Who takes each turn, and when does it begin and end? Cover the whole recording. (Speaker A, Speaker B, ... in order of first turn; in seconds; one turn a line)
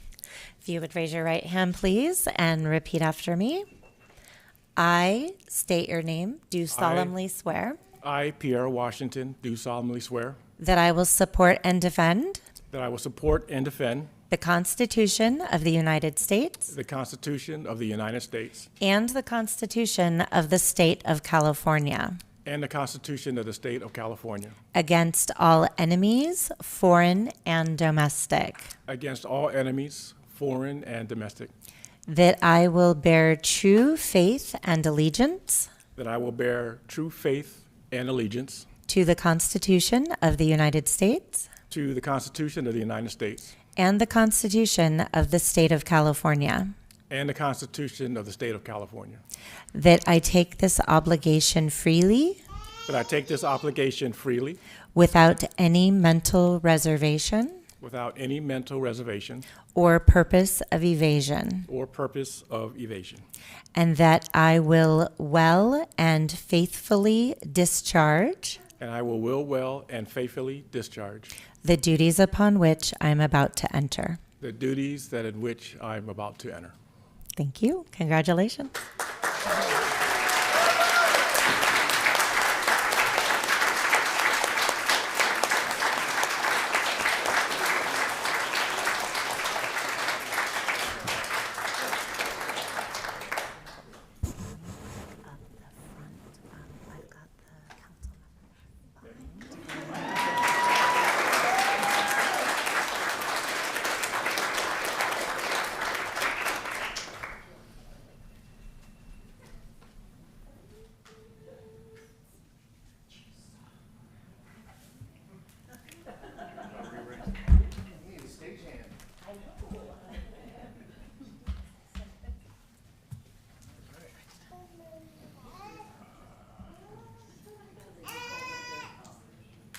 Speaker A: 0.6-3.6
Speaker A: 4.8-7.8
Speaker B: 6.7-7.1
Speaker B: 8.0-10.4
Speaker A: 10.6-12.4
Speaker B: 12.7-14.1
Speaker A: 14.3-16.7
Speaker B: 16.7-18.7
Speaker A: 18.8-22.2
Speaker B: 22.4-24.6
Speaker A: 24.8-28.7
Speaker B: 28.9-31.5
Speaker A: 32.1-35.7
Speaker B: 36.0-38.7
Speaker A: 38.9-41.5
Speaker B: 41.7-43.5
Speaker A: 43.8-46.7
Speaker B: 47.1-49.2
Speaker A: 49.7-52.4
Speaker B: 52.9-54.6
Speaker A: 54.9-57.6
Speaker B: 57.8-59.5
Speaker A: 59.7-61.7
Speaker B: 61.7-63.3
Speaker A: 63.8-68.6
Speaker B: 68.8-71.3
Speaker A: 71.6-74.2
Speaker B: 74.4-76.7
Speaker A: 77.4-78.8
Speaker A: 95.2-98.2
Speaker A: 99.0-99.6